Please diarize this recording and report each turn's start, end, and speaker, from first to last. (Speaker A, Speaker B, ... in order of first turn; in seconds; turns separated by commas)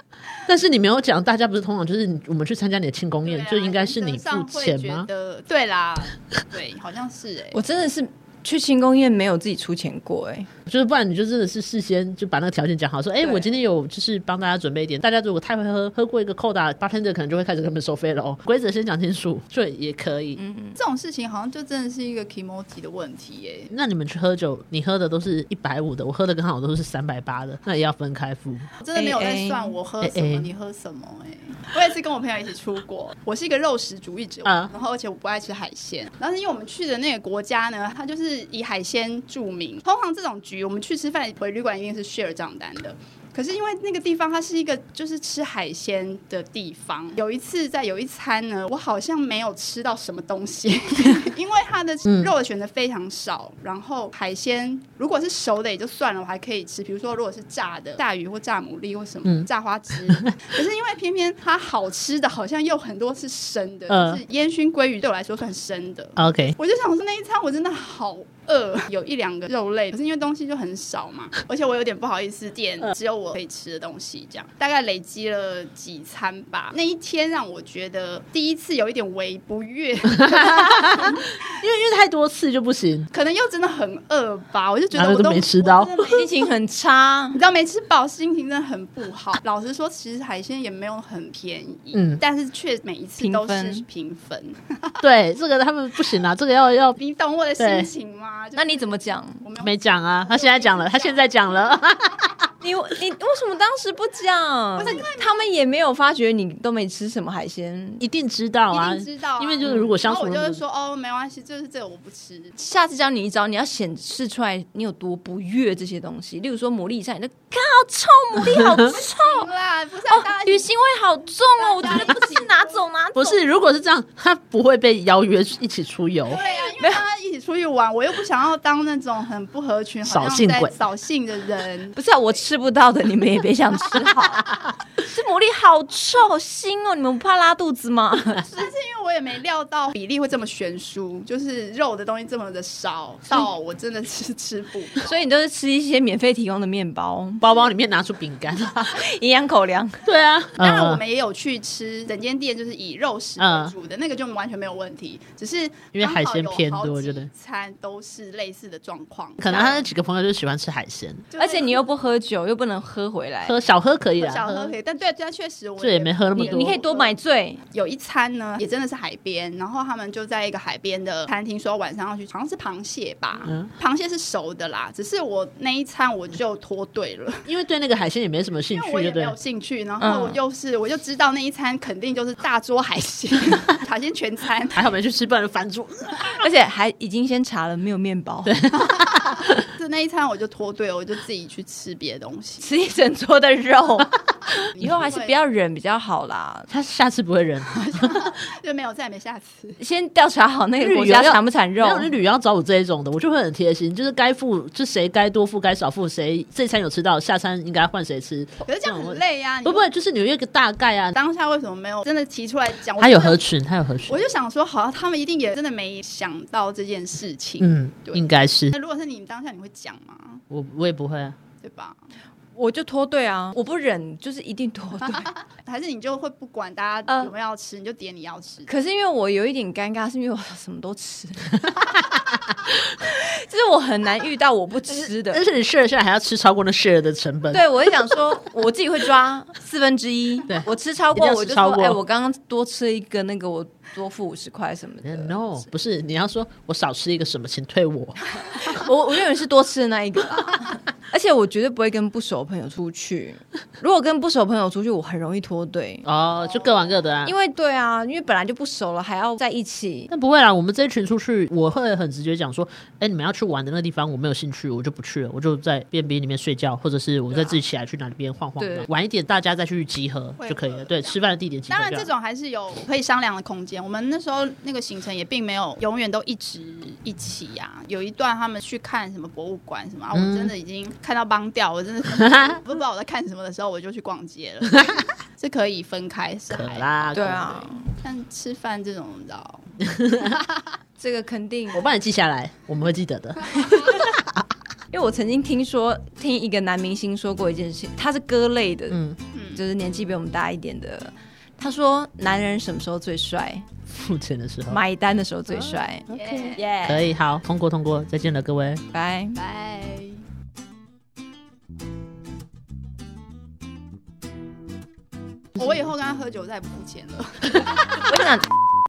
Speaker A: 0.5-5.1, Speaker B: 3.2-7.6, Speaker C: 7.5-10.5, Speaker A: 10.7-20.4, Speaker C: 13.2-13.5, Speaker C: 20.4-20.8, Speaker B: 20.8-23.7, Speaker A: 23.7-28.7, Speaker B: 28.8-81.3, Speaker C: 28.9-29.8, Speaker A: 30.0-30.5, Speaker A: 34.5-34.7, Speaker A: 52.1-52.3, Speaker A: 63.9-64.2, Speaker A: 66.2-66.6, Speaker A: 80.1-83.1, Speaker B: 83.1-86.5, Speaker A: 84.9-86.2, Speaker C: 86.1-87.4, Speaker B: 87.3-95.0, Speaker A: 91.9-92.2, Speaker C: 93.2-93.9, Speaker A: 95.0-97.0, Speaker B: 97.0-101.7, Speaker A: 97.6-97.9, Speaker C: 98.5-99.4, Speaker A: 99.6-102.3, Speaker C: 102.6-108.0, Speaker B: 104.8-105.5, Speaker A: 108.0-110.6, Speaker B: 108.7-112.6, Speaker C: 112.6-119.5, Speaker A: 118.5-118.9, Speaker B: 119.0-120.7, Speaker C: 120.1-123.4, Speaker B: 121.6-122.8, Speaker A: 123.2-126.4, Speaker B: 126.3-132.1, Speaker A: 130.1-130.7, Speaker C: 131.9-138.4, Speaker B: 138.4-145.2, Speaker C: 145.0-147.5, Speaker A: 147.4-149.0, Speaker C: 148.7-150.0, Speaker A: 150.1-151.0, Speaker B: 150.6-159.8, Speaker A: 153.4-153.7, Speaker A: 155.9-157.3, Speaker A: 159.4-161.3, Speaker B: 161.3-161.9, Speaker C: 161.4-163.6, Speaker A: 163.5-164.7, Speaker B: 164.2-167.2, Speaker A: 165.8-166.8, Speaker C: 166.4-167.6, Speaker B: 167.7-177.5, Speaker A: 173.4-173.7, Speaker A: 177.5-179.4, Speaker B: 178.7-184.9, Speaker C: 180.0-180.4, Speaker A: 184.8-186.4, Speaker C: 186.4-188.6, Speaker A: 188.4-189.6, Speaker B: 188.8-192.7, Speaker C: 192.6-194.2, Speaker C: 194.8-196.7, Speaker A: 194.8-195.1, Speaker B: 195.1-195.4, Speaker A: 196.7-198.2, Speaker B: 197.7-199.8, Speaker C: 199.8-202.1, Speaker A: 200.8-211.1, Speaker B: 208.7-209.9, Speaker B: 211.1-213.4, Speaker A: 213.0-214.2, Speaker B: 214.1-220.4, Speaker A: 217.6-218.8, Speaker A: 220.5-221.4, Speaker B: 221.6-222.0, Speaker C: 222.6-225.3, Speaker B: 225.2-228.7, Speaker C: 228.7-231.6, Speaker C: 233.0-235.4, Speaker A: 234.9-237.7, Speaker C: 237.5-245.7, Speaker A: 240.5-242.0, Speaker A: 245.0-248.7, Speaker C: 248.4-256.1, Speaker A: 256.1-257.3, Speaker B: 256.5-256.9, Speaker C: 257.2-260.1, Speaker A: 260.1-272.1, Speaker C: 268.6-268.9, Speaker B: 270.4-287.3, Speaker A: 280.1-280.5, Speaker A: 282.1-282.6, Speaker A: 286.5-287.7, Speaker C: 287.1-287.9, Speaker B: 288.0-289.7, Speaker A: 289.8-290.4, Speaker C: 291.0-291.8, Speaker A: 291.7-294.4, Speaker C: 294.9-299.0, Speaker A: 298.9-299.2, Speaker B: 299.3-299.6, Speaker C: 299.6-303.6, Speaker A: 303.9-304.8, Speaker C: 304.7-307.1, Speaker A: 305.5-308.8, Speaker B: 306.1-306.6, Speaker C: 308.9-309.4, Speaker B: 309.4-310.2, Speaker B: 315.6-318.0, Speaker C: 318.0-318.5